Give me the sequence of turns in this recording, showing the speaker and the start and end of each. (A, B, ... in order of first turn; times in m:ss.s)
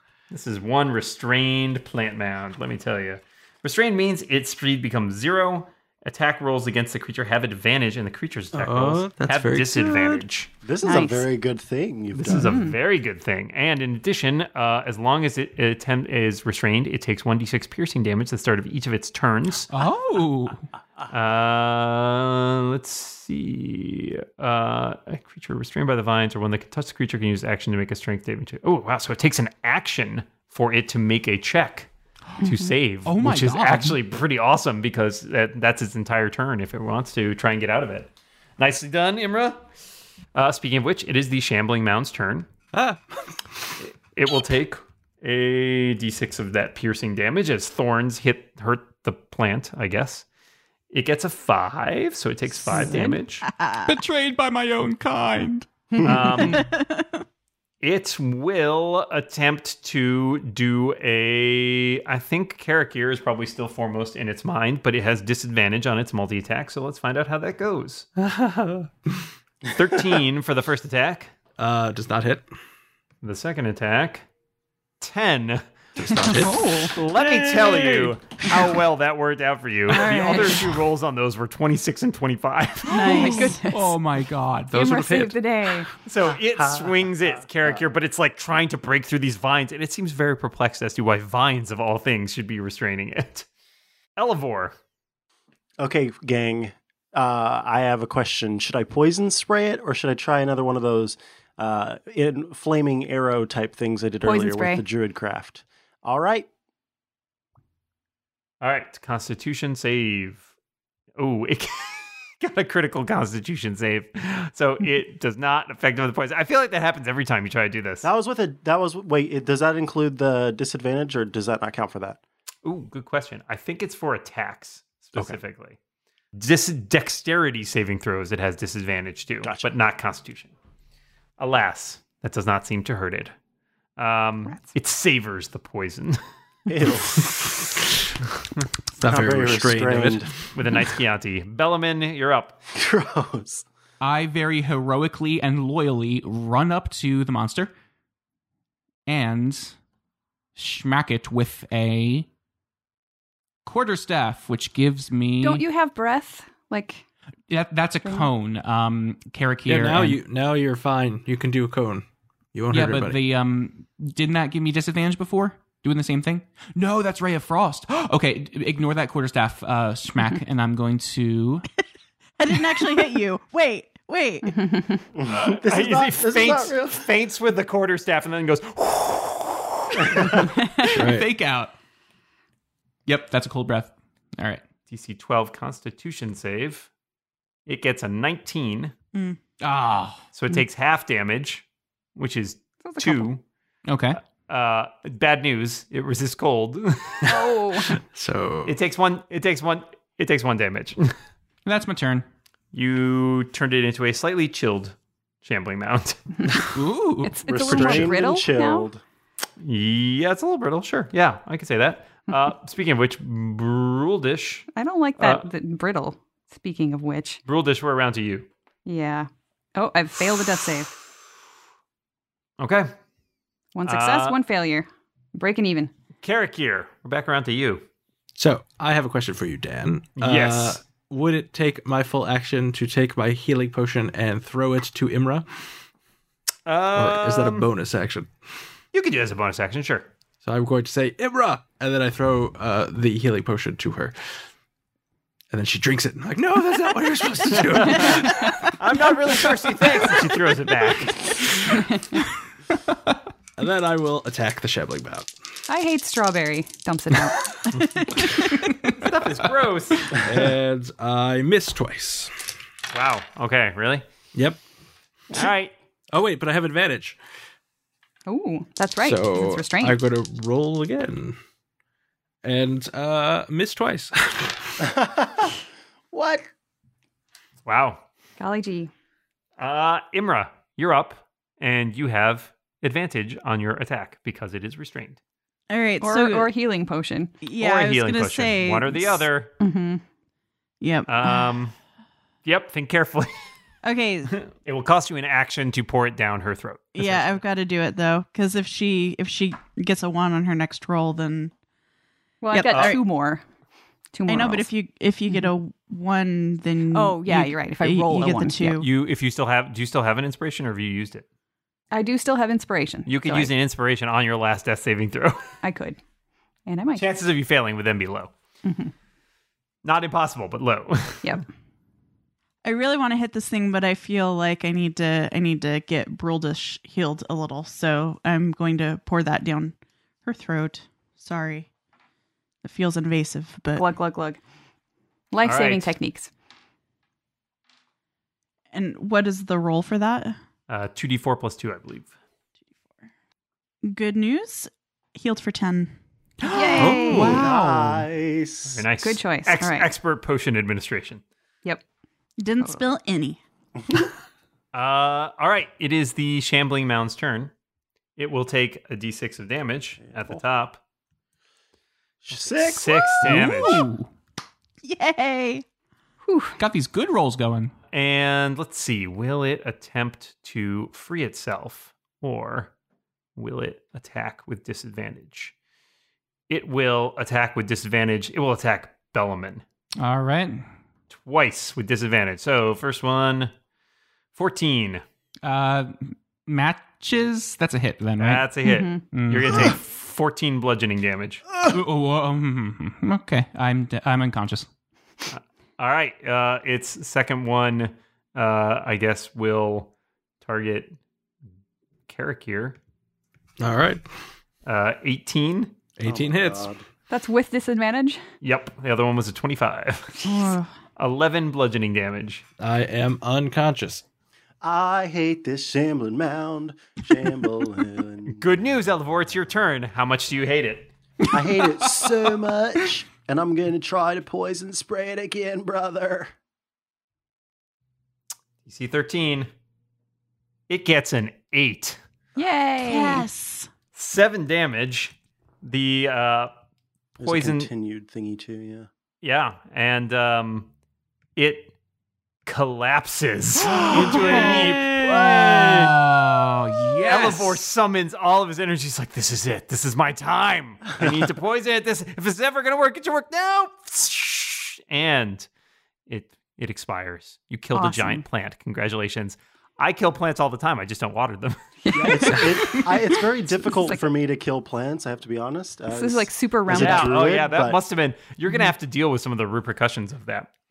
0:00.3-0:10.5 A
0:08.5-0:10.3 B
0:10.6-0:12.6 C
0:10.8-0:11.3 D
0:12.1-0:19.7 A
0:12.3-0:12.8 D
0:19.7-0:20.6 E
0:21.1-0:31.9 A
0:32.4-0:39.6 A
0:32.4-0:32.7 D
0:33.1-0:34.0 E
0:40.3-0:42.5 A
0:42.7-0:43.8 B
0:43.8-0:50.3 A
0:50.9-0:53.5 A
0:52.8-0:53.1 E
0:53.4-0:54.0 F
0:53.9-0:56.6 E
0:56.0-0:56.7 A
0:56.5-0:57.2 F
0:57.8-1:08.1 A
1:08.2-1:08.9 B
1:09.7-1:11.3 A
1:11.6-1:12.5 B
1:13.2-1:14.2 A
1:15.0-1:23.0 A
1:16.0-1:18.2 B
1:16.3-1:16.9 E
1:19.9-1:20.6 D
1:22.9-1:23.8 F
1:23.0-1:23.9 D
1:23.0-1:24.8 E
1:24.7-1:25.9 B
1:24.7-1:25.9 D
1:26.0-1:33.5 A
1:26.6-1:26.9 C
1:34.2-1:34.8 A
1:35.8-1:46.5 C
1:44.2-1:44.8 D
1:48.6-1:50.4 A
1:51.2-1:58.1 A
1:58.0-2:02.2 C
2:02.6-2:05.8 A
2:06.4-2:10.5 A
2:09.4-2:09.7 C
2:11.4-2:13.3 A
2:14.0-2:16.2 A
2:16.7-2:17.6 C
2:19.0-2:20.3 B
2:19.0-2:20.4 C
2:20.5-2:22.6 A
2:22.7-2:23.6 C
2:24.0-2:27.7 E
2:29.1-2:29.8 E
2:30.6-2:32.3 E
2:33.6-2:35.6 E
2:35.4-2:37.0 D
2:37.5-2:40.2 E
2:38.0-2:38.3 D
2:39.7-2:43.2 B
2:42.7-2:51.7 E
2:52.4-2:54.7 F
2:54.5-2:55.0 D
2:55.2-2:57.1 C
2:55.3-3:00.4 A
3:00.0-3:00.5 C
3:00.3-3:01.7 E
3:00.9-3:01.3 B
3:03.1-3:04.6 E
3:04.9-3:06.9 A
3:07.7-3:08.9 A
3:09.6-3:10.2 E
3:10.3-3:11.6 A
3:12.2-3:13.4 A
3:12.8-3:13.3 D
3:13.9-3:14.2 E
3:14.5-3:17.3 A
3:17.2-3:18.0 D
3:17.2-3:18.8 B
3:18.7-3:21.1 A
3:21.6-3:22.3 E
3:22.7-3:26.2 A
3:26.8-3:28.1 E
3:27.2-3:28.9 D
3:27.5-3:29.0 C
3:29.6-3:34.7 A
3:34.7-3:37.4 D
3:35.2-3:35.5 A
3:37.5-3:38.5 A
3:38.9-3:40.9 D
3:42.6-3:42.9 A
3:43.8-3:45.9 D
3:43.9-3:44.4 A
3:46.2-3:47.8 A
3:48.4-3:55.5 B
3:50.2-3:50.8 A
3:56.7-3:57.7 A
3:56.9-3:58.3 B
3:58.9-4:00.1 A
4:00.4-4:04.2 B
4:05.5-4:08.7 B
4:07.7-4:11.5 A
4:09.4-4:10.1 B
4:13.6-4:15.3 B
4:15.7-4:17.4 D
4:17.7-4:18.3 F
4:18.6-4:19.1 E
4:18.8-4:20.2 A
4:20.1-4:22.3 B
4:22.9-4:24.0 A
4:24.4-4:24.6 B
4:25.3-4:25.7 A
4:26.1-4:27.2 B
4:28.3-4:30.0 D
4:29.0-4:31.4 B
4:32.4-4:34.9 B
4:34.8-4:35.6 C
4:36.1-4:36.5 C
4:37.6-4:38.0 A
4:38.4-4:38.9 D
4:39.6-4:45.2 A
4:45.7-4:46.5 F
4:46.0-4:47.4 D
4:47.4-4:49.3 F
4:47.6-4:49.5 A
4:49.6-4:50.0 D
4:50.8-4:51.5 F
4:51.1-4:51.8 A
4:52.4-4:53.3 A
4:53.8-4:54.4 F
4:54.3-4:57.4 A
4:57.0-5:01.5 F
5:02.4-5:03.4 D
5:02.5-5:03.0 F
5:02.7-5:03.0 A
5:04.1-5:04.7 D
5:04.3-5:08.9 F
5:06.9-5:08.8 D
5:08.8-5:11.3 A
5:11.9-5:13.5 D
5:13.1-5:15.4 A
5:15.6-5:16.0 D
5:16.7-5:17.0 D
5:17.0-5:18.3 A
5:18.6-5:18.9 D
5:19.8-5:21.4 A
5:22.6-5:31.7 F
5:32.6-5:33.9 F
5:33.8-5:34.4 D
5:35.3-5:36.3 D
5:35.4-5:36.0 A
5:38.7-5:40.4 F
5:40.7-5:42.1 A
5:43.8-5:46.0 F
5:46.4-5:48.1 E
5:46.5-5:47.4 D
5:47.1-5:48.8 C
5:48.7-5:51.2 A
5:49.0-5:49.9 D
5:52.4-5:53.4 F
5:54.7-5:57.5 A
5:58.2-6:00.8 A
6:00.1-6:00.4 C
6:02.2-6:03.8 C
6:02.3-6:03.8 A
6:03.2-6:04.1 E
6:04.8-6:05.6 F
6:06.2-6:06.6 D
6:06.6-6:07.7 E
6:07.9-6:12.7 A
6:13.4-6:15.5 A
6:16.5-6:19.6 A
6:20.0-6:20.7 E
6:21.1-6:23.5 A
6:24.4-6:25.0 A
6:25.4-6:28.5 E
6:28.2-6:31.5 A
6:28.6-6:29.0 D
6:29.0-6:29.7 E
6:31.7-6:34.7 E
6:35.3-6:39.9 A
6:40.4-6:41.0 A
6:42.1-6:42.8 A
6:43.6-6:44.0 B
6:44.7-6:45.7 A
6:46.0-6:46.7 B
6:46.0-6:46.8 C
6:47.1-6:48.2 D
6:48.4-6:50.4 A
6:50.2-6:50.7 F
6:51.0-6:52.4 A
6:52.6-6:54.0 B
6:54.6-6:58.4 C
6:58.3-7:00.9 A
7:01.3-7:02.1 E
7:01.3-7:06.3 C
7:08.7-7:09.5 A
7:10.7-7:12.0 A
7:12.4-7:13.3 D
7:12.8-7:13.7 F
7:14.0-7:16.5 A
7:17.2-7:18.9 C
7:17.2-7:17.7 A
7:19.2-7:20.7 A
7:21.4-7:21.7 A
7:22.5-7:25.9 A
7:23.6-7:27.6 E
7:26.9-7:35.5 A
7:36.1-7:41.6 A
7:37.7-7:38.2 D
7:41.8-7:42.9 D
7:41.9-7:47.8 C
7:43.5-7:44.0 D
7:45.9-7:47.3 D
7:46.7-7:50.5 A